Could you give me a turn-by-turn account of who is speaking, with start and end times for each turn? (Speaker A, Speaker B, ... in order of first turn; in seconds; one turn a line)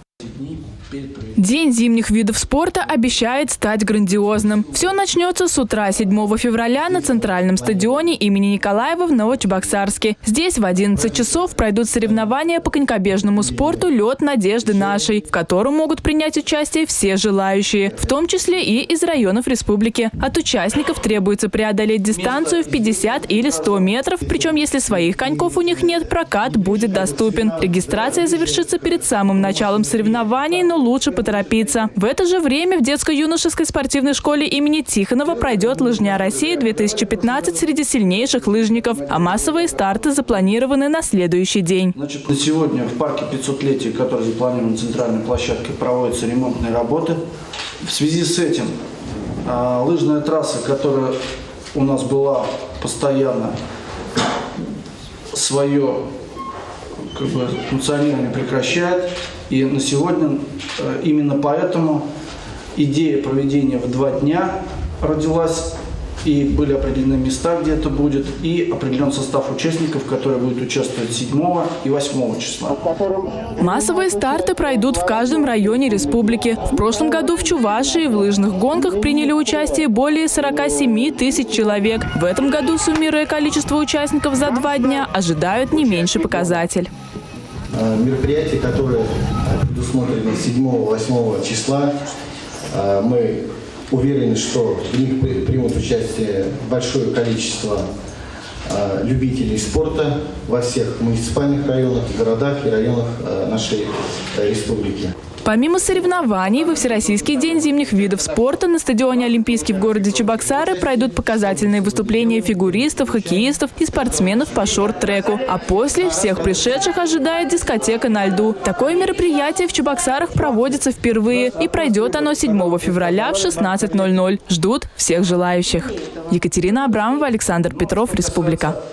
Speaker A: 0.2-1.4
Speaker B: 1.4-42.0
Speaker C: 6.8-8.1
Speaker A: 22.1-23.9
Speaker C: 26.5-29.8
Speaker A: 35.5-37.7
Speaker A: 38.3-40.3
Speaker A: 42.0-47.2
Speaker A: 47.8-48.7
Speaker A: 49.4-51.1
Speaker A: 51.7-53.6
Speaker A: 55.3-56.0
Speaker A: 57.0-62.0
Speaker A: 62.7-72.9
Speaker B: 73.6-86.9
Speaker C: 87.7-92.0
Speaker C: 92.7-97.8
Speaker C: 98.7-105.1
Speaker B: 105.4-128.8
Speaker A: 107.6-107.9
Speaker A: 109.8-110.4